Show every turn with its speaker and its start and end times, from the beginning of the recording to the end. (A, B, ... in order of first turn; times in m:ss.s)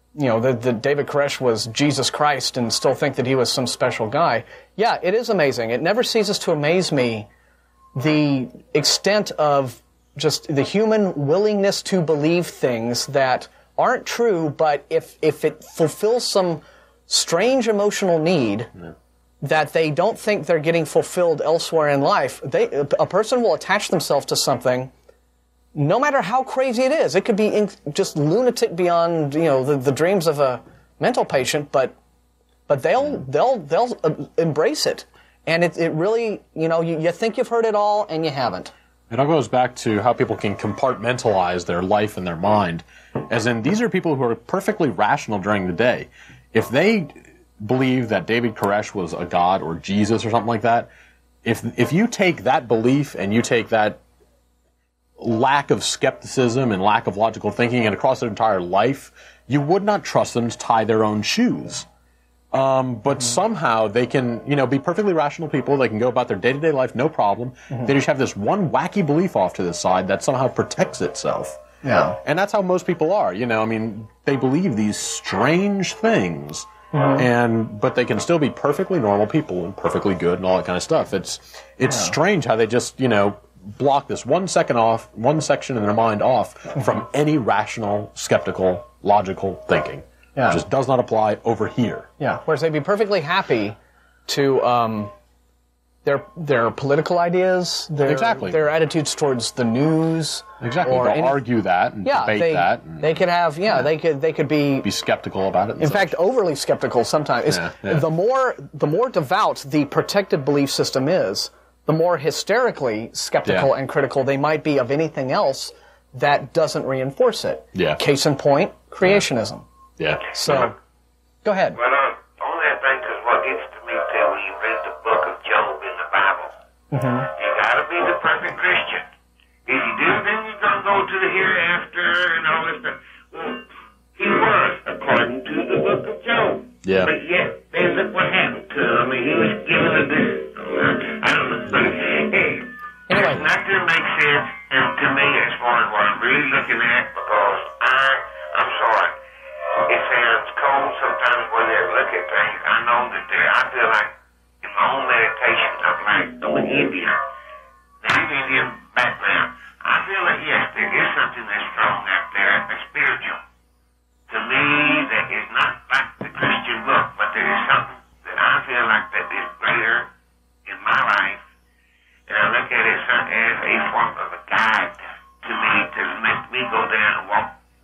0:00.2-0:07.3 A
0:08.0-0:18.7 A
0:19.4-0:24.9 A
0:25.8-0:31.9 A
0:32.7-0:38.7 A
0:39.1-0:50.9 B
0:51.4-0:54.0 B
0:55.2-1:01.9 B
1:02.5-1:11.6 B
1:11.8-1:12.2 A
1:12.2-1:32.1 B
1:16.9-1:17.3 A
1:21.9-1:22.2 A
1:30.4-1:30.6 A
1:32.2-1:33.8 A
1:34.3-1:35.1 A
1:36.0-1:41.4 A
1:38.1-1:38.6 B
1:40.6-1:43.9 B
1:42.0-1:44.9 A
1:44.8-1:46.1 B
1:45.8-1:59.6 A
1:47.5-1:48.1 B
2:00.0-2:00.7 B
2:00.3-2:00.7 A
2:01.4-2:01.8 A
2:01.8-2:06.5 C
2:06.9-2:07.3 A
2:07.4-2:09.1 C
2:09.7-2:29.1 C
2:16.8-2:17.1 B
2:23.1-2:23.5 A
2:29.8-2:37.2 C
2:38.0-2:43.4 C
2:44.3-2:50.1 C
2:50.7-2:51.4 C
2:52.3-2:57.5 C